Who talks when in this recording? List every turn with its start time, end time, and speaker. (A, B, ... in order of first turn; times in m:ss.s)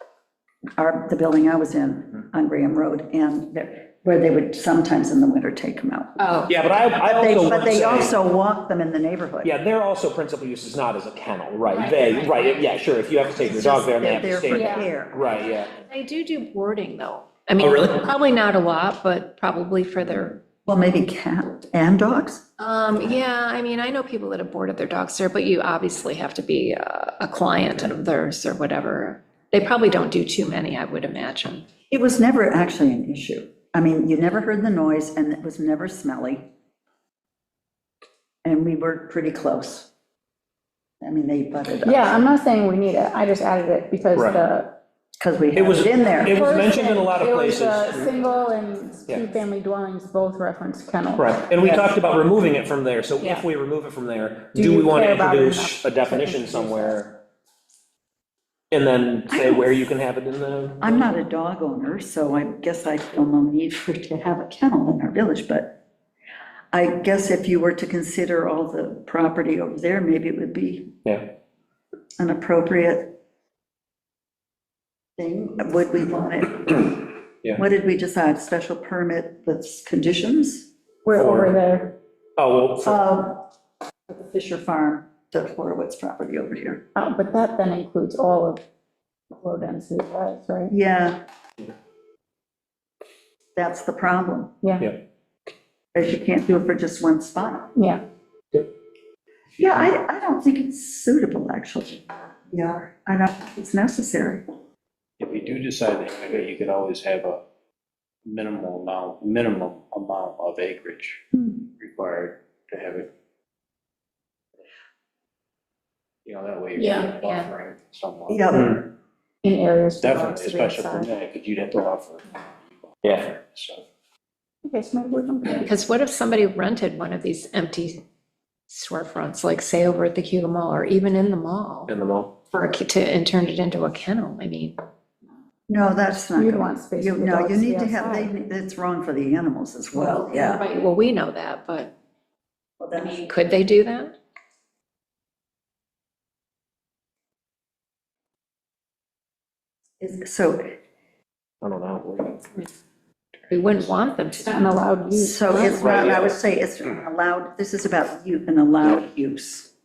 0:00.8-0:06.2 A
0:06.2-0:06.5 B
0:06.5-0:08.1 C
0:07.0-0:09.5 A
0:09.4-0:15.7 C
0:11.7-0:12.6 B
0:13.4-0:15.2 A
0:14.5-0:14.9 D
0:15.8-0:20.4 B
0:17.6-0:18.1 C
0:20.6-0:22.4 A
0:22.6-0:31.7 B
0:31.9-0:36.5 A
0:38.4-0:39.9 A
0:41.0-0:42.3 A
0:41.8-0:44.8 D
0:44.1-0:44.4 C
0:45.2-0:46.4 A
0:45.5-0:48.1 C
0:46.2-0:51.4 D
0:51.2-0:57.2 C
0:51.6-0:51.9 A
0:54.5-0:57.0 D
0:58.7-1:01.1 C
0:59.3-0:59.8 A
1:00.8-1:05.8 A
1:06.7-1:10.9 A
1:11.0-1:11.3 C
1:12.2-1:13.2 A
1:15.2-1:20.7 A
1:21.0-1:21.9 D
1:21.1-1:21.6 C
1:22.4-1:23.0 C
1:22.8-1:23.5 A
1:24.1-1:26.8 A
1:26.9-1:28.6 D
1:29.4-1:30.7 D
1:30.7-1:31.2 A
1:33.5-1:34.5 A
1:34.6-1:34.9 D
1:35.9-1:37.7 A
1:37.8-1:38.0 D
1:39.6-1:44.4 A
1:45.2-1:47.4 E
1:48.2-1:53.1 E
1:56.2-1:58.8 E
1:56.8-1:57.1 D
1:57.2-1:57.5 B
1:58.3-1:58.8 A
1:59.4-2:01.1 D
2:00.0-2:02.4 E
2:03.0-2:03.3 C
2:03.0-2:03.8 E
2:04.6-2:05.7 D
2:05.5-2:08.0 B
2:08.7-2:11.9 B
2:11.9-2:12.3 C
2:12.5-2:14.8 B
2:15.7-2:20.6 A
2:16.4-2:18.3 D
2:19.9-2:21.9 B
2:22.8-2:23.3 A
2:23.0-2:24.1 B
2:30.0-2:30.8 A
2:31.6-2:32.6 C
2:33.5-2:34.7 B
2:34.4-2:35.7 D
2:35.1-2:39.7 A
2:35.5-2:36.1 B
2:35.7-2:36.4 C